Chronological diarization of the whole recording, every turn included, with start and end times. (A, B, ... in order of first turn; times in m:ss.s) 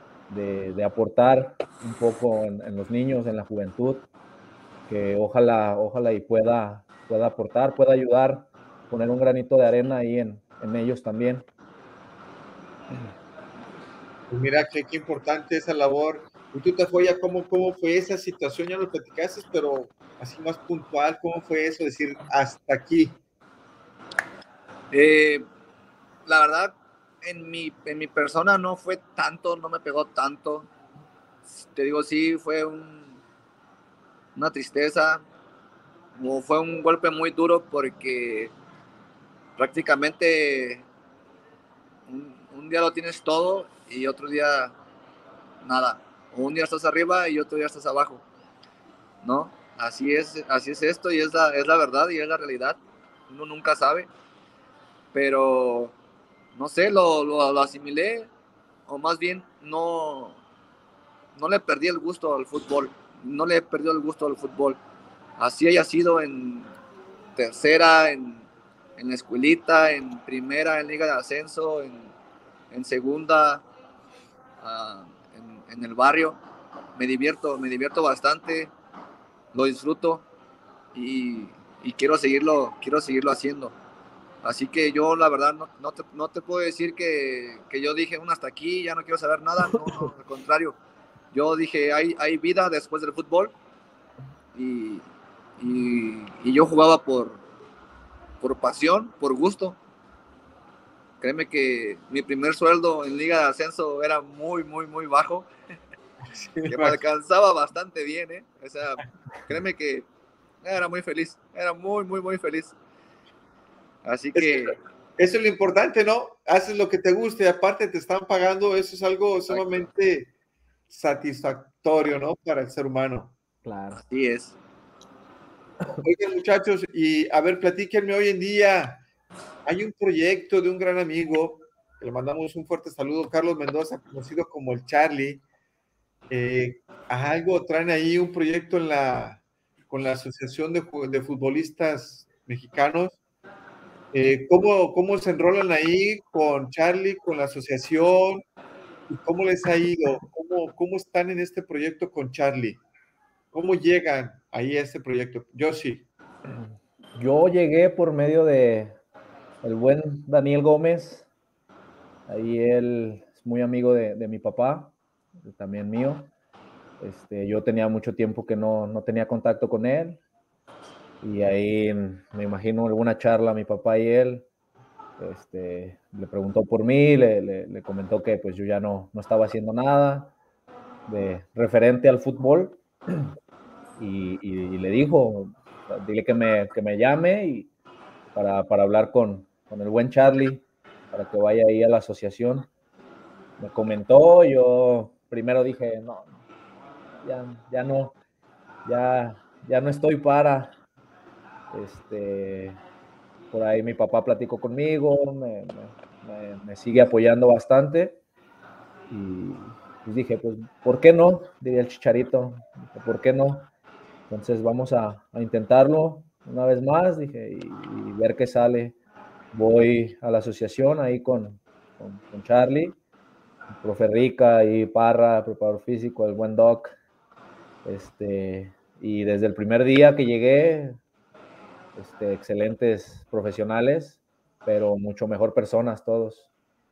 0:00.3-0:04.1 A
0:04.9-0:11.4 A
0:14.3-0:23.2 B
0:24.9-0:25.4 C
0:26.2-0:30.7 C
0:31.4-0:33.2 C
0:34.3-0:35.2 C
0:36.2-0:38.5 C
0:39.6-0:40.8 C
0:42.1-0:44.7 C
0:45.6-0:48.2 C
0:49.2-0:54.1 C
0:55.1-0:55.9 C
0:56.5-0:58.3 C
0:58.9-1:00.4 C
1:01.3-1:04.8 C
1:05.4-1:06.7 C
1:07.4-1:08.4 C
1:09.0-1:12.1 C
1:12.7-1:13.6 C
1:14.6-1:16.4 C
1:17.0-1:18.7 C
1:19.5-1:20.2 C
1:20.9-1:23.7 C
1:24.4-1:30.8 C
1:31.3-1:33.5 C
1:34.5-1:35.0 C
1:35.6-1:37.4 C
1:38.4-1:39.8 C
1:41.2-1:45.5 C
1:46.4-1:47.0 B
1:46.7-1:50.1 C
1:50.6-1:52.7 C
1:54.0-1:54.8 C
1:54.3-2:00.3 B
1:59.5-1:59.9 C
2:00.9-2:03.3 B
2:03.6-2:04.0 A
2:03.9-2:04.6 C
2:06.0-2:09.0 B
2:09.6-2:15.4 B
2:16.3-2:23.2 B
2:24.1-2:28.4 B
2:29.1-2:32.8 B
2:33.5-2:36.0 B
2:36.4-2:39.0 A
2:39.6-2:41.3 A
2:42.3-2:46.3 A
2:47.0-2:50.2 A
2:51.2-2:54.4 A
2:55.2-3:00.3 A
3:01.0-3:03.3 A
3:04.0-3:07.7 A
3:08.3-3:12.7 A
3:13.6-3:16.3 A
3:17.2-3:18.1 A
3:18.8-3:20.7 A
3:21.7-3:22.8 A
3:23.5-3:28.2 A
3:29.1-3:33.7 A
3:34.3-3:38.9 A
3:39.5-3:43.0 A
3:43.7-3:46.9 A
3:47.8-3:51.0 A
3:51.9-3:56.5 A